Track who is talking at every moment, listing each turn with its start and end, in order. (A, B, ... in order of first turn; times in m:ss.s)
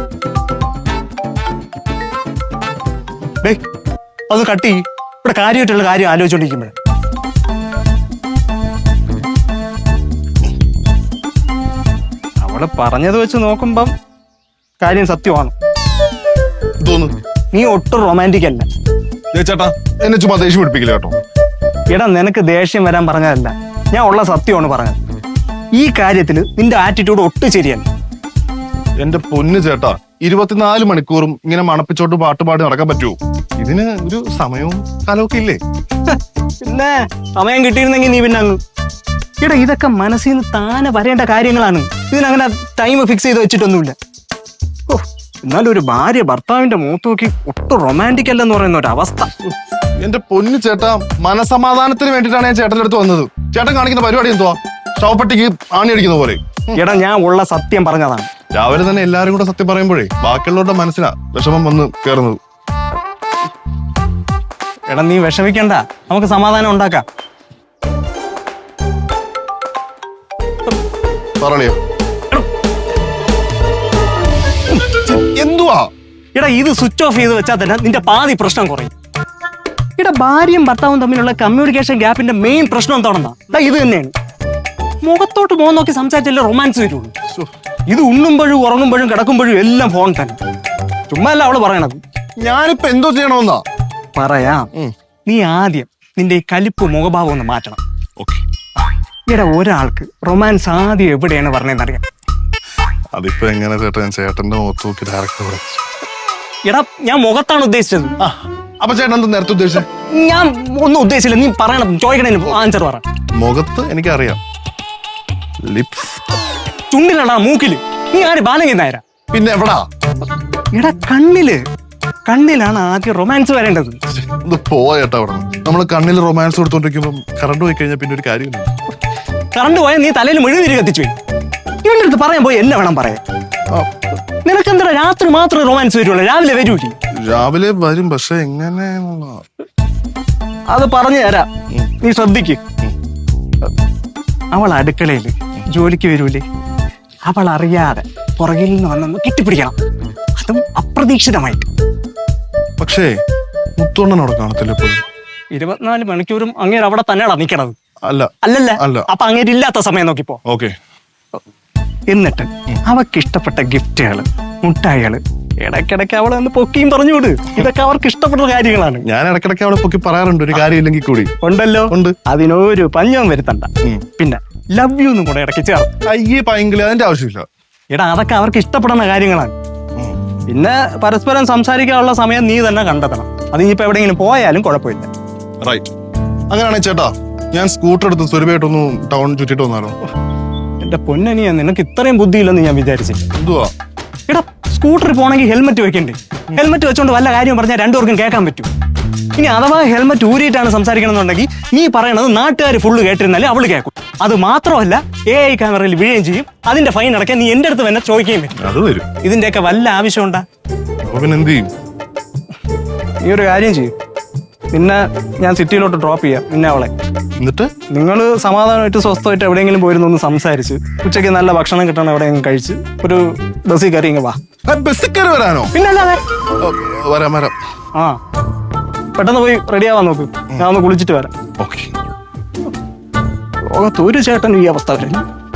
0:04.3-0:06.7 A
0:12.4-0:13.9 A
0:14.8-0:15.5 A
0:16.8-0:17.2 B
0:17.5-0:18.7 A
0:19.3-0:21.2 B
0:21.9-0:25.0 A
0:25.8-0:27.8 A
0:29.0-0:35.6 B
0:36.1-0:38.6 A
0:39.4-0:44.0 A
0:44.9-0:49.3 A
0:50.0-0:56.8 B
0:56.7-0:58.3 A
0:58.5-1:02.4 B
1:04.9-1:07.0 A
1:11.4-1:11.8 B
1:14.8-1:15.9 B
1:16.3-1:18.9 A
1:20.0-1:24.1 A
1:25.0-1:27.1 A
1:27.9-1:30.4 A
1:31.1-1:32.0 A
1:32.4-1:33.6 B
1:34.1-1:34.7 A
1:35.2-1:37.8 A
1:38.2-1:38.4 B
1:39.3-1:42.0 A
1:43.1-1:45.8 B
1:46.6-1:48.1 A
1:48.2-1:49.9 B
1:50.0-1:53.0 A
1:53.4-1:54.4 B
1:55.6-1:56.2 B
1:56.9-1:59.0 A
1:59.3-1:59.8 B
2:00.7-2:01.6 A
2:02.2-2:04.0 A
2:04.3-2:08.7 B
2:09.5-2:11.1 A
2:11.8-2:13.2 A
2:14.4-2:16.9 A
2:17.1-2:19.4 B
2:20.7-2:22.6 A
2:24.5-2:26.4 A
2:27.2-2:29.8 A
2:30.3-2:31.7 A
2:32.8-2:33.1 B
2:33.8-2:35.0 B
2:35.5-2:37.7 A
2:38.0-2:39.1 B
2:38.4-2:40.4 A
2:40.4-2:40.7 B
2:42.1-2:49.1 A
2:49.0-2:51.3 B
2:51.4-2:55.9 A
2:51.9-2:52.2 B
2:56.0-2:57.5 B
2:57.9-2:59.5 A
3:00.5-3:05.1 A
3:05.6-3:05.9 B
3:06.5-3:10.0 B
3:10.8-3:13.2 A
3:13.3-3:13.7 B
3:14.3-3:18.7 A
3:19.3-3:28.6 A
3:28.6-3:29.1 B
3:29.2-3:30.4 A
3:31.0-3:31.7 B
3:33.2-3:33.9 A
3:34.7-3:36.9 A
3:37.4-3:37.7 B
3:37.9-3:44.4 A
3:44.6-3:45.7 B
3:45.7-3:46.2 A
3:46.6-3:47.5 B
3:47.9-3:48.2 A
3:49.1-3:51.3 A
3:51.6-3:51.9 B
3:53.6-3:55.2 A